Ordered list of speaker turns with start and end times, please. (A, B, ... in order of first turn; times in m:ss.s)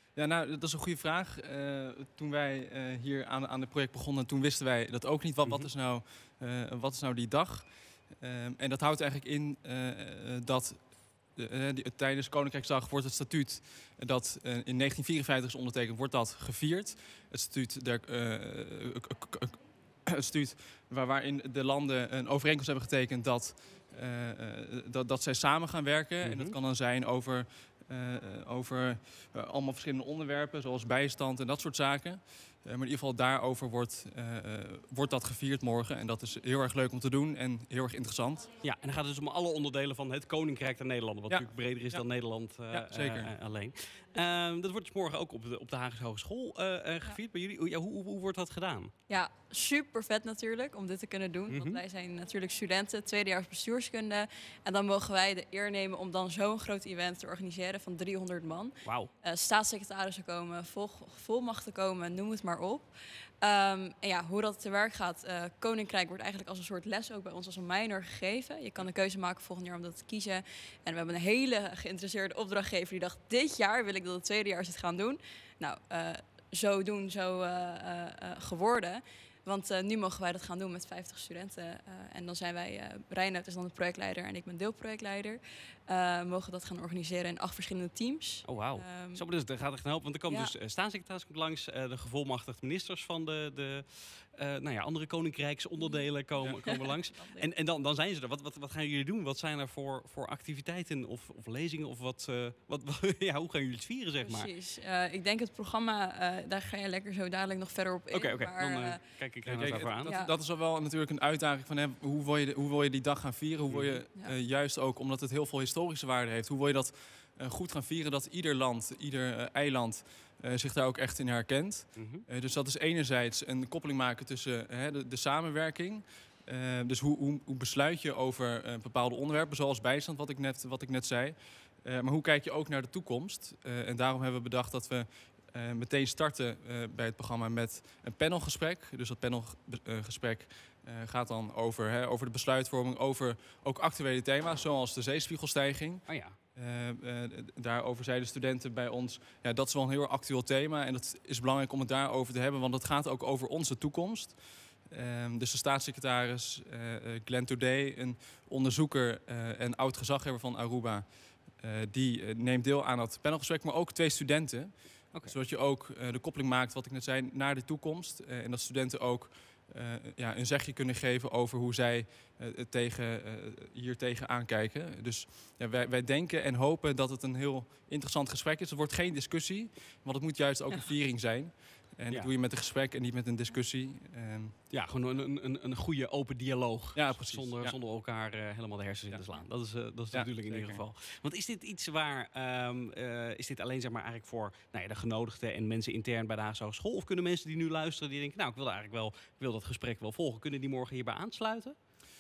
0:00.2-0:38.5 A
0:05.4-0:05.7 B
0:26.2-0:26.6 B
0:38.6-0:48.9 B
0:41.3-0:42.0 A
0:42.7-0:43.3 A
0:49.1-1:29.3 C
0:51.5-0:51.8 B
0:58.8-0:59.1 B
1:28.4-1:44.5 B
1:30.3-1:30.5 C
1:35.8-1:37.5 C
1:44.2-1:49.2 C
1:48.1-1:50.1 B
1:49.5-3:04.8 A
1:50.0-1:50.3 C
1:53.7-1:54.0 B
2:02.0-2:02.2 B
2:26.1-2:26.4 B
3:04.7-3:21.8 B
3:06.9-3:07.8 A
3:10.1-3:10.8 A